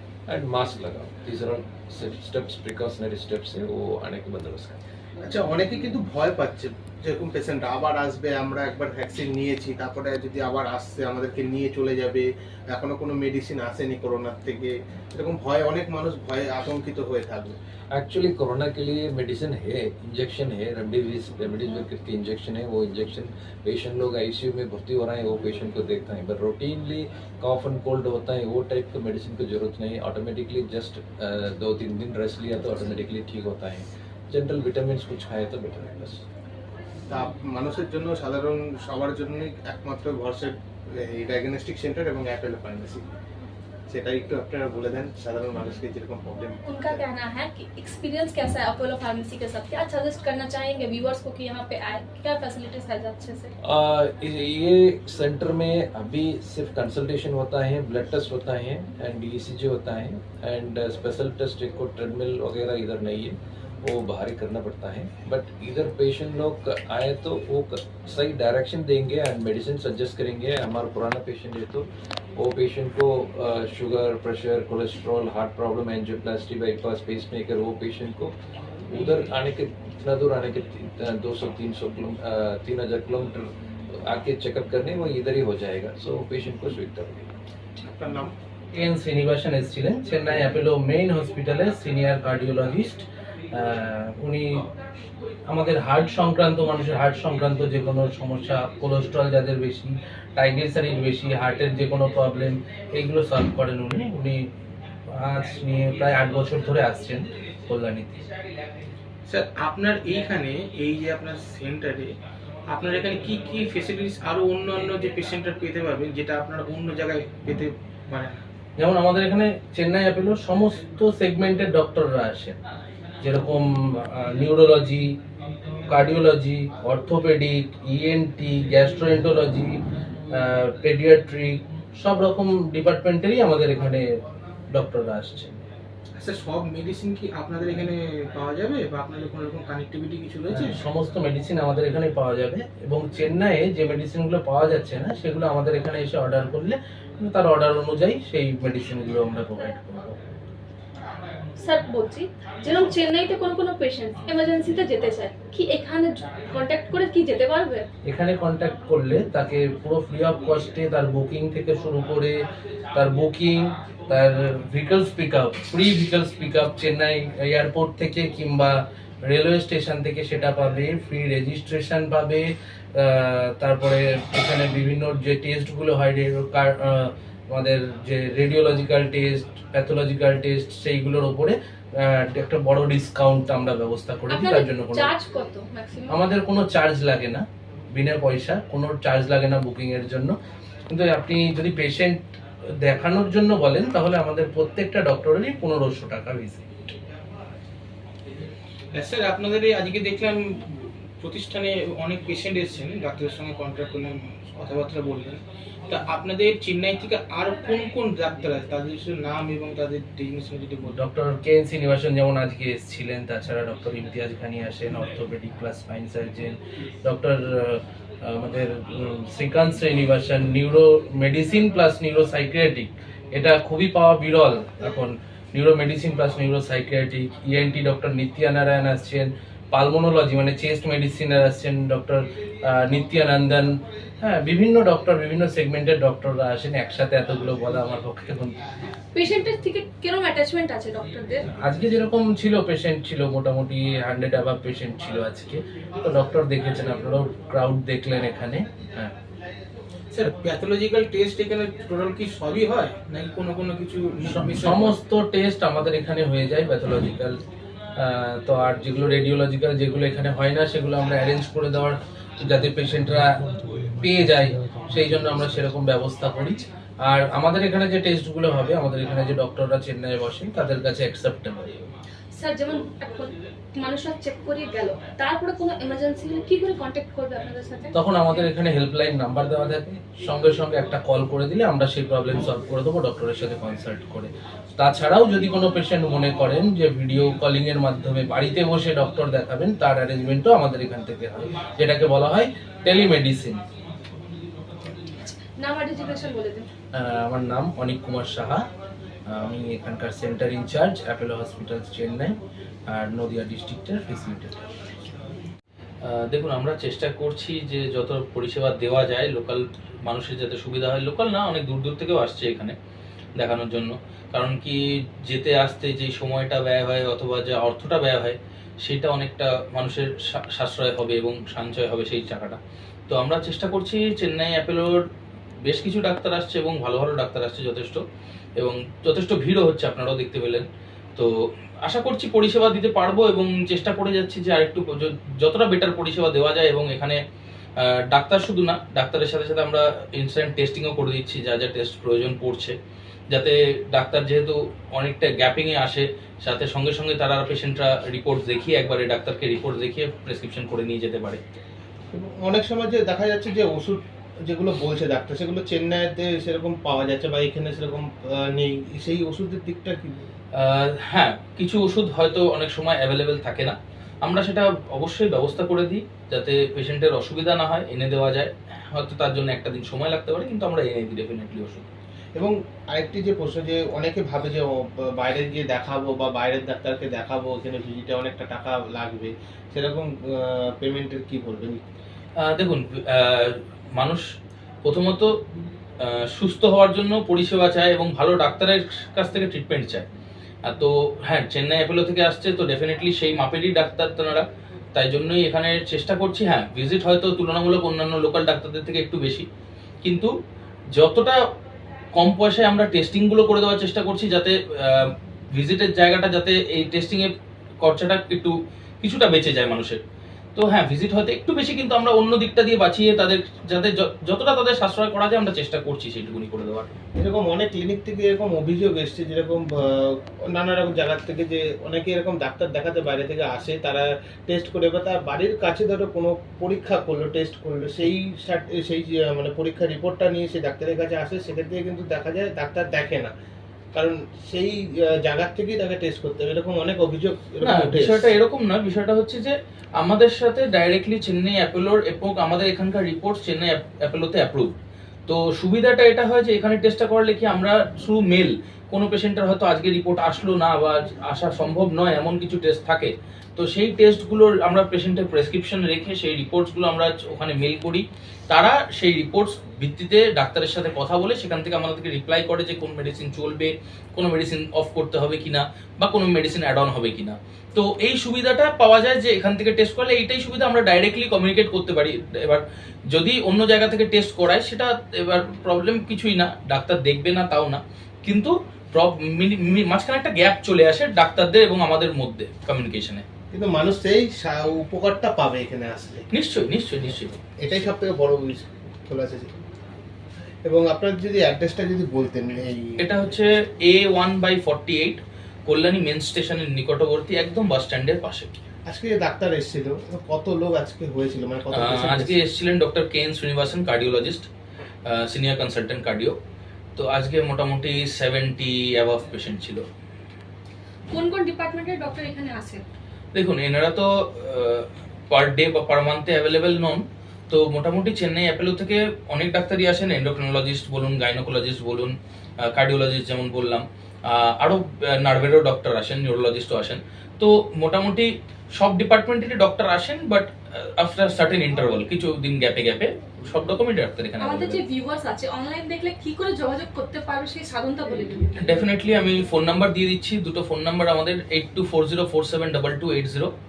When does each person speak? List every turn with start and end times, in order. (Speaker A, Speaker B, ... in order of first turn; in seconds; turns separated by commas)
Speaker A: 0.3-4.8, Speaker B: 5.2-17.6, Speaker A: 17.9-36.2, Speaker B: 37.1-43.0, Speaker B: 43.9-47.0, Speaker C: 46.6-53.5, Speaker A: 53.6-78.3, Speaker A: 78.9-87.3, Speaker B: 87.9-88.3, Speaker D: 88.7-94.7, Speaker D: 95.5-104.5, Speaker D: 105.1-108.2, Speaker E: 109.3-112.2, Speaker E: 112.7-118.4, Speaker D: 118.8-122.6, Speaker D: 123.2-125.2, Speaker D: 125.9-135.6, Speaker E: 136.2-140.8, Speaker D: 140.5-150.2, Speaker C: 151.6-157.9, Speaker D: 158.0-185.1, Speaker C: 184.3-186.3, Speaker D: 186.1-190.3, Speaker D: 190.9-196.9, Speaker E: 198.9-211.0, Speaker D: 210.8-238.6, Speaker C: 239.1-241.5, Speaker D: 241.5-249.1, Speaker E: 250.1-255.0, Speaker D: 254.3-257.4, Speaker D: 258.0-271.8, Speaker C: 272.3-277.9, Speaker D: 277.9-293.6, Speaker C: 295.1-296.7, Speaker D: 296.9-298.7, Speaker D: 299.2-304.5, Speaker F: 306.0-312.8, Speaker F: 313.4-325.0, Speaker F: 325.6-328.0, Speaker F: 328.6-337.2, Speaker F: 337.8-342.8, Speaker F: 343.3-351.4, Speaker B: 352.1-360.1, Speaker F: 360.6-371.9, Speaker B: 372.4-381.8, Speaker F: 382.4-384.2, Speaker F: 384.8-385.3, Speaker F: 386.0-390.1, Speaker F: 390.6-399.5, Speaker F: 400.0-400.3, Speaker F: 400.9-401.4, Speaker F: 402.1-410.0, Speaker F: 410.5-417.0, Speaker B: 417.1-433.3, Speaker B: 433.9-438.3, Speaker F: 437.6-444.7, Speaker F: 445.3-483.2, Speaker B: 483.5-486.2, Speaker F: 486.3-487.4, Speaker B: 487.6-489.5, Speaker B: 490.6-493.0, Speaker F: 493.0-498.5, Speaker B: 498.9-502.4, Speaker F: 501.7-504.5, Speaker F: 505.1-506.4, Speaker F: 507.0-509.8, Speaker C: 511.1-512.8, Speaker F: 513.3-534.8, Speaker C: 534.4-538.8, Speaker F: 538.5-543.5